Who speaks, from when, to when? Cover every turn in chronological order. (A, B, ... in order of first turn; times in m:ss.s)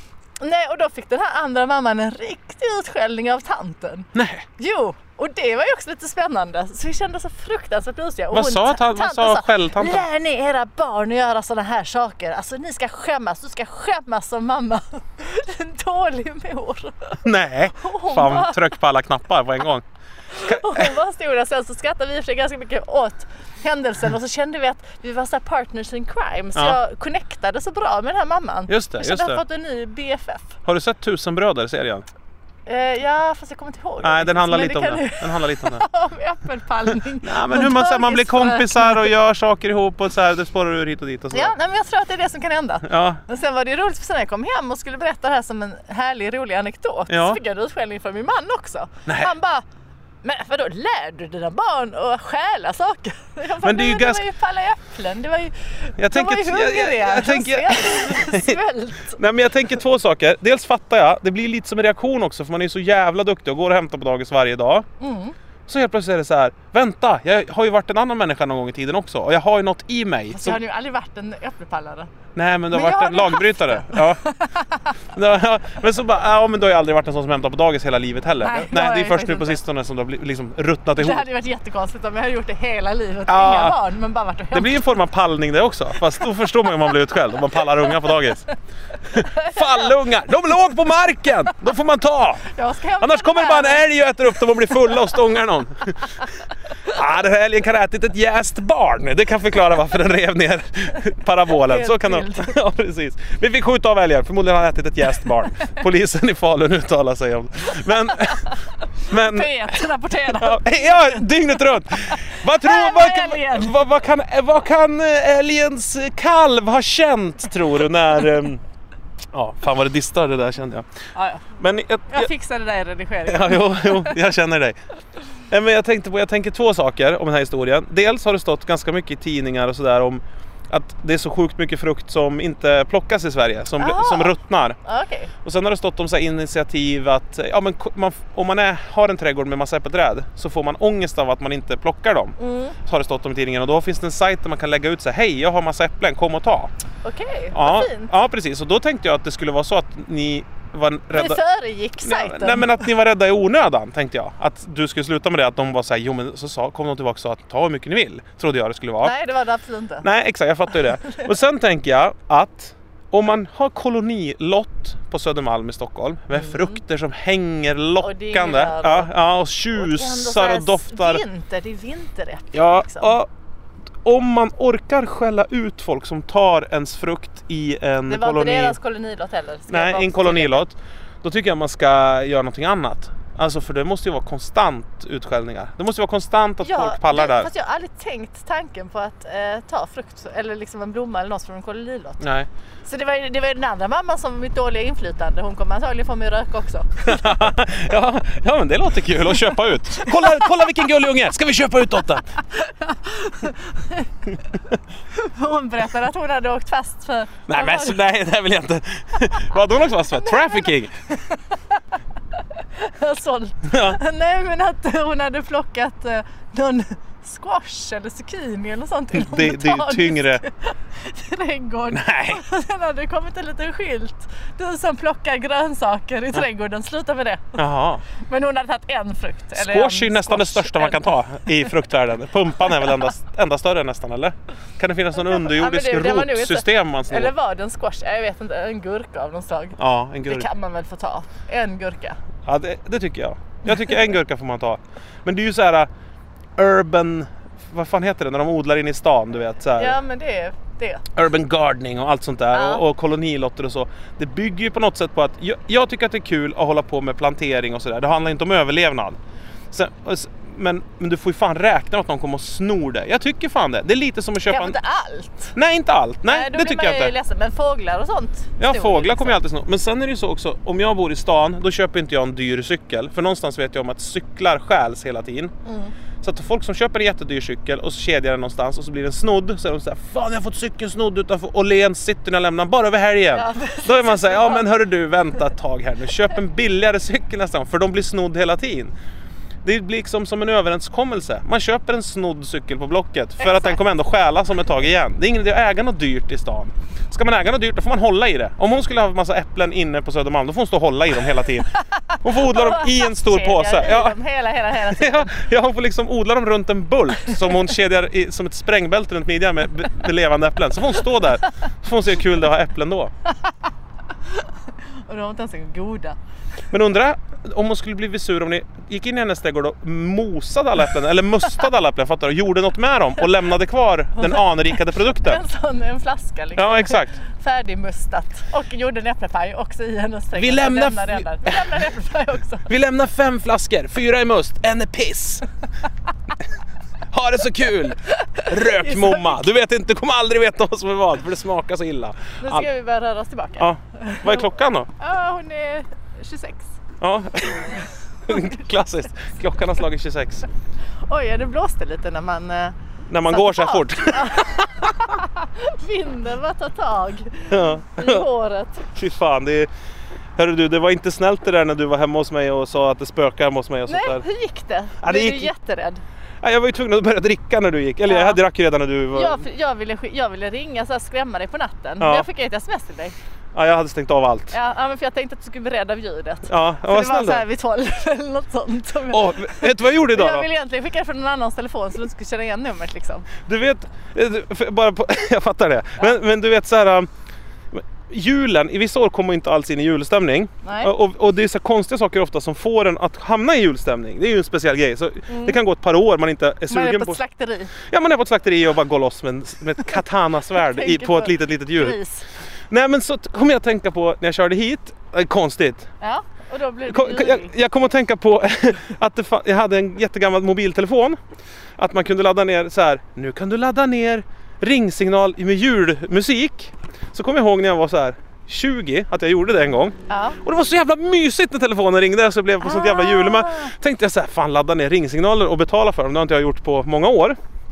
0:00.4-0:17.2 A
0:04.1-0:04.5 B
0:08.3-0:10.1 B
0:17.2-0:19.8 B
0:17.8-0:18.6 A
0:20.3-0:30.6 A
0:20.4-0:20.9 B
0:28.7-0:29.4 B
0:30.6-0:32.0 B
0:32.6-0:39.1 A
0:34.0-0:35.8 B
0:37.2-0:41.5 B
0:41.3-0:49.6 A
0:42.8-0:43.2 B
0:47.1-0:47.4 B
0:49.0-0:49.3 B
0:50.2-0:59.2 A
0:53.6-0:54.2 B
0:56.0-1:04.9 B
1:05.0-1:05.4 A
1:05.7-1:10.6 B
1:10.3-1:12.1 A
1:12.3-1:14.2 B
1:12.7-1:14.9 A
1:15.1-1:21.2 B
1:18.4-1:19.6 A
1:21.0-1:24.8 A
1:23.3-1:23.8 B
1:24.5-1:28.5 B
1:27.8-1:28.2 A
1:29.1-1:32.4 B
1:29.2-1:29.9 A
1:32.5-1:33.8 A
1:33.0-1:36.2 B
1:36.8-1:49.8 B
1:41.6-1:42.6 A
1:49.1-1:53.8 A
1:50.3-1:58.6 B
1:59.3-2:00.9 B
2:01.1-2:01.4 A
2:01.6-2:02.3 B
2:02.1-2:04.2 A
2:03.2-2:04.8 B
2:05.5-2:14.8 B
2:13.8-2:15.3 A
2:15.4-2:26.7 B
2:22.4-2:22.8 A
2:27.0-2:28.1 A
2:27.5-2:31.4 B
2:31.1-2:32.9 A
2:32.0-2:39.1 B
2:39.0-2:40.0 A
2:40.0-2:51.2 B
2:46.4-2:46.7 A
2:48.0-2:49.1 A
2:49.8-2:53.1 A
2:52.5-2:53.3 B
2:54.0-2:58.8 B
2:58.1-3:00.6 A
2:59.7-3:07.5 B
3:06.6-3:12.2 A
3:12.2-3:12.5 B
3:12.8-3:17.5 A
3:17.0-3:22.3 B
3:19.3-3:20.6 A
3:22.5-3:24.4 A
3:25.1-3:28.0 A
3:27.5-3:30.9 B
3:30.1-3:31.8 A
3:32.6-3:47.6 A
3:33.7-3:34.0 B
3:39.1-3:40.4 B
3:41.9-3:42.4 B
3:47.6-3:48.0 B
3:48.2-3:51.1 A
3:49.5-3:57.3 B
3:52.7-3:53.0 A
3:55.2-4:02.2 A
3:59.8-4:00.5 B
4:02.4-4:05.9 B
4:06.6-4:10.0 B
4:09.8-4:11.0 A
4:11.1-4:19.2 B
4:12.5-4:12.8 A
4:19.7-4:24.8 B
4:24.5-4:25.5 A
4:25.5-4:27.1 B
4:26.2-4:29.4 A
4:28.6-4:35.5 B
4:35.6-4:35.9 A
4:36.2-4:48.9 B
4:43.3-4:44.7 A
4:49.6-5:04.2 B
4:53.4-4:53.8 A
5:02.1-5:05.3 A
5:04.9-5:13.1 B
5:14.2-5:16.2 A
5:16.7-5:25.4 B
5:24.2-5:32.7 A
5:26.6-5:27.2 B
5:30.3-5:31.6 B
5:32.7-5:35.4 B
5:37.1-5:42.7 B
5:38.2-5:39.4 A
5:42.4-5:46.8 A
5:43.6-5:44.9 B
5:47.0-5:50.4 B
5:47.5-5:48.5 A
5:51.0-5:52.8 A
5:53.1-5:55.1 B
5:53.3-5:58.8 A
5:57.5-5:58.2 B
5:58.9-5:59.7 B
6:00.4-6:04.2 B
6:03.9-6:06.0 A
6:05.0-6:05.5 B
6:06.4-6:09.4 B
6:08.0-6:08.4 A
6:09.1-6:13.1 A
6:12.0-6:12.2 B
6:13.5-6:14.5 B
6:14.5-6:23.3 A
6:16.5-6:17.4 B
6:19.1-6:20.5 B
6:23.4-6:27.1 B
6:27.7-6:37.2 B
6:30.6-6:30.9 A
6:35.3-6:35.6 A
6:36.7-6:37.7 A
6:37.9-6:42.0 B
6:40.5-6:42.2 A
6:42.7-6:45.9 B
6:46.0-6:47.5 A
6:46.9-6:51.2 B
6:51.8-7:07.4 B
7:00.1-7:00.4 A
7:02.6-7:03.7 A